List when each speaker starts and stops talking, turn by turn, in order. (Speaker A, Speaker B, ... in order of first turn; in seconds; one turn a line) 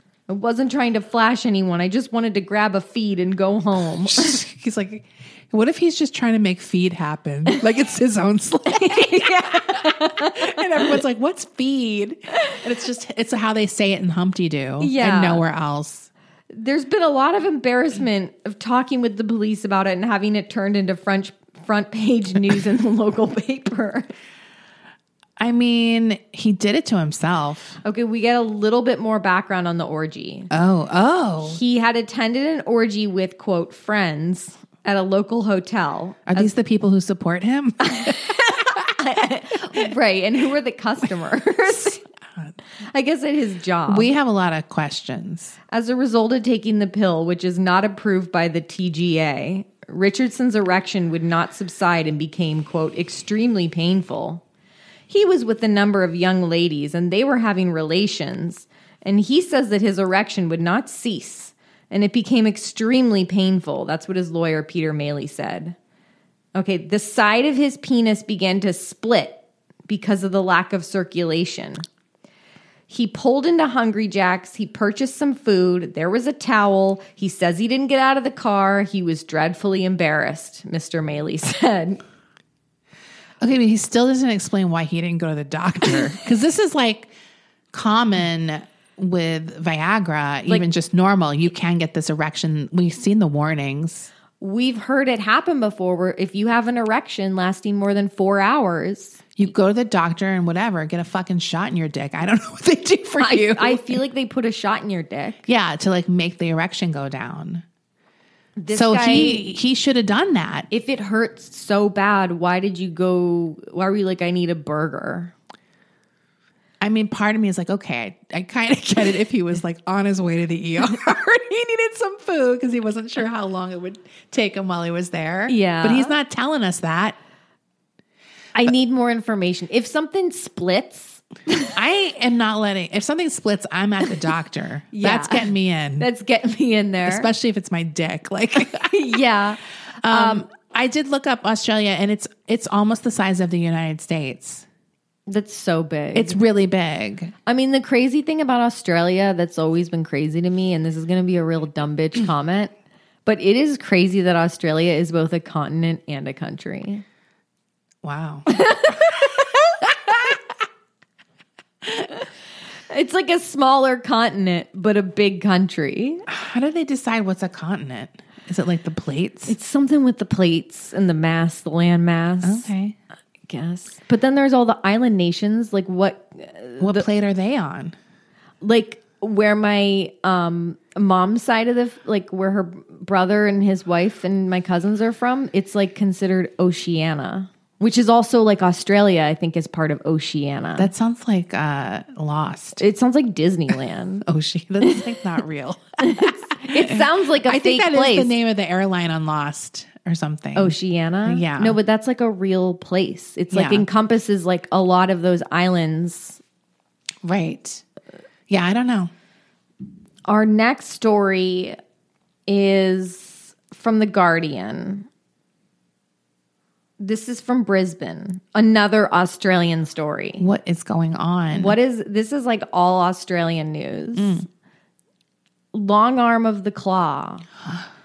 Speaker A: 0.3-4.4
Speaker B: 4.0-16.1
Speaker A: 8.7-11.0
Speaker A: 14.8-15.4
Speaker A: 16.5-24.1
Speaker B: 25.4-27.8
Speaker A: 27.8-30.5
Speaker B: 30.5-31.6
Speaker A: 31.4-36.5
Speaker B: 36.3-38.2
Speaker A: 37.8-42.0
Speaker A: 42.9-44.1
Speaker B: 43.9-45.5
Speaker A: 45.7-54.4
Speaker A: 55.1-65.8
Speaker A: 66.5-71.8
Speaker A: 72.9-82.0
Speaker B: 83.4-87.1
Speaker B: 87.7-94.1
Speaker A: 94.4-99.4
Speaker B: 99.3-104.0
Speaker A: 103.2-105.4
Speaker B: 105.5-107.6
Speaker A: 108.6-109.5
Speaker B: 108.7-110.7
Speaker A: 110.7-115.3
Speaker B: 116.8-127.2
Speaker A: 125.5-126.1
Speaker A: 128.5-131.7
Speaker B: 131.7-136.1
Speaker A: 134.9-137.3
Speaker B: 137.0-138.9
Speaker A: 138.6-140.4
Speaker B: 140.0-144.7
Speaker A: 145.3-146.4
Speaker B: 146.1-147.3
Speaker A: 147.4-152.7
Speaker A: 153.2-157.0
Speaker B: 158.0-158.9
Speaker A: 158.5-159.6
Speaker A: 162.9-166.2
Speaker B: 166.3-169.5
Speaker A: 169.5-172.7
Speaker B: 172.4-172.9
Speaker A: 173.5-177.1
Speaker B: 176.8-177.9
Speaker A: 178.6-190.9
Speaker B: 190.8-192.8
Speaker A: 192.8-194.2
Speaker B: 194.2-201.8
Speaker A: 196.0-198.3
Speaker A: 200.5-206.4
Speaker B: 203.5-203.8
Speaker B: 207.2-207.8
Speaker B: 208.5-209.1
Speaker A: 210.2-211.8
Speaker A: 212.5-215.1
Speaker A: 217.0-220.4
Speaker B: 220.4-221.8
Speaker A: 221.5-224.4
Speaker B: 224.2-224.4
Speaker A: 225.7-227.4